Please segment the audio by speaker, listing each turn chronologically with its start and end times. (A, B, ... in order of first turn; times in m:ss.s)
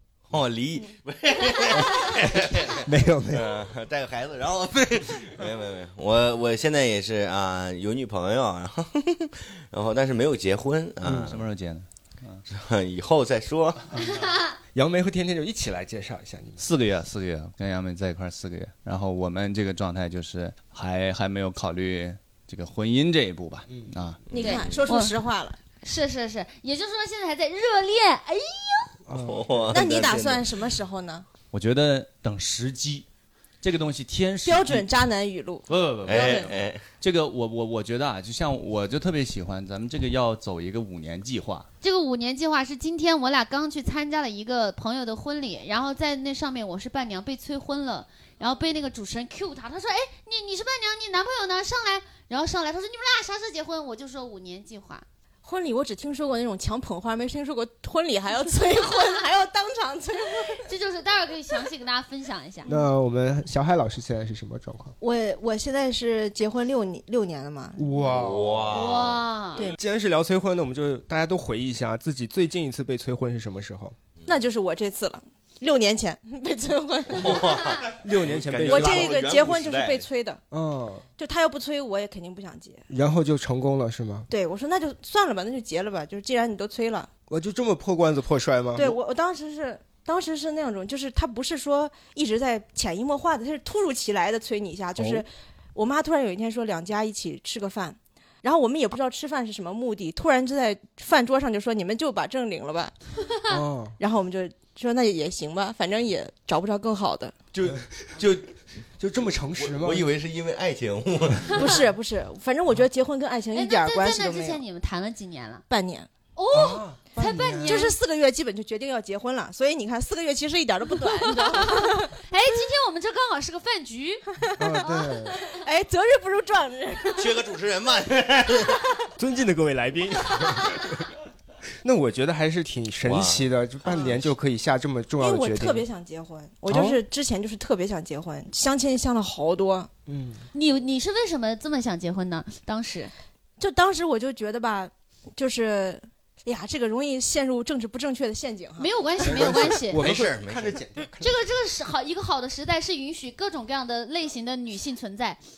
0:00.3-0:11.4 A
0:02.8-0:03.5 B
0:11.0-0:11.3 B
0:11.2-0:12.4 C
0:12.5-0:14.0 A
0:14.1-0:14.5 D
0:14.7-0:16.6 B
0:16.6-0:24.2 C
0:24.3-0:24.8 A
0:24.3-0:25.6 E
0:24.4-0:25.1 D
0:25.8-0:28.9 D
0:29.1-0:29.8 B
0:29.1-0:30.4 A
0:29.7-0:31.2 E
0:31.5-0:33.0 C
0:33.6-0:35.0 C
0:34.4-0:36.5 E
0:35.7-0:41.7 C
0:36.0-0:36.8 A
0:41.8-0:55.0 D
0:55.4-1:00.6 E
1:00.6-1:02.7 D
1:02.7-1:04.9 B
1:05.0-1:07.8 E
1:07.8-1:08.7 B
1:08.0-1:09.2 A
1:08.7-1:09.6 D
1:09.6-1:14.0 B
1:14.3-1:17.7 E
1:17.1-1:20.1 A
1:18.0-1:19.1 B
1:18.7-1:20.4 E
1:20.5-1:21.0 B
1:21.2-1:22.8 E
1:22.9-1:24.3 B
1:24.3-1:27.1 E
1:27.3-1:29.0 B
1:28.8-1:42.9 E
1:35.0-1:35.2 B
1:43.3-1:43.5 D
1:43.5-1:44.0 B
1:44.0-1:47.4 E
1:47.5-1:48.5 A
1:49.0-1:50.1 B
1:49.6-1:51.8 A
1:51.6-1:54.6 E
1:53.5-1:55.6 D
1:55.7-1:56.1 E
1:56.4-1:58.0 D
1:56.5-1:57.9 B
1:57.6-2:02.2 E
2:01.2-2:04.2 D
2:04.6-2:05.4 B
2:04.8-2:05.6 D
2:05.5-2:07.4 E
2:07.1-2:08.8 A
2:09.2-2:11.1 B
2:11.8-2:15.8 B
2:13.0-2:14.2 A
2:15.2-2:19.9 E
2:16.7-2:17.0 B
2:20.1-2:20.4 B
2:20.5-2:23.1 D
2:23.6-2:28.9 E
2:28.8-2:30.0 D
2:29.2-2:31.4 B
2:29.2-2:30.8 A
2:31.2-2:35.4 D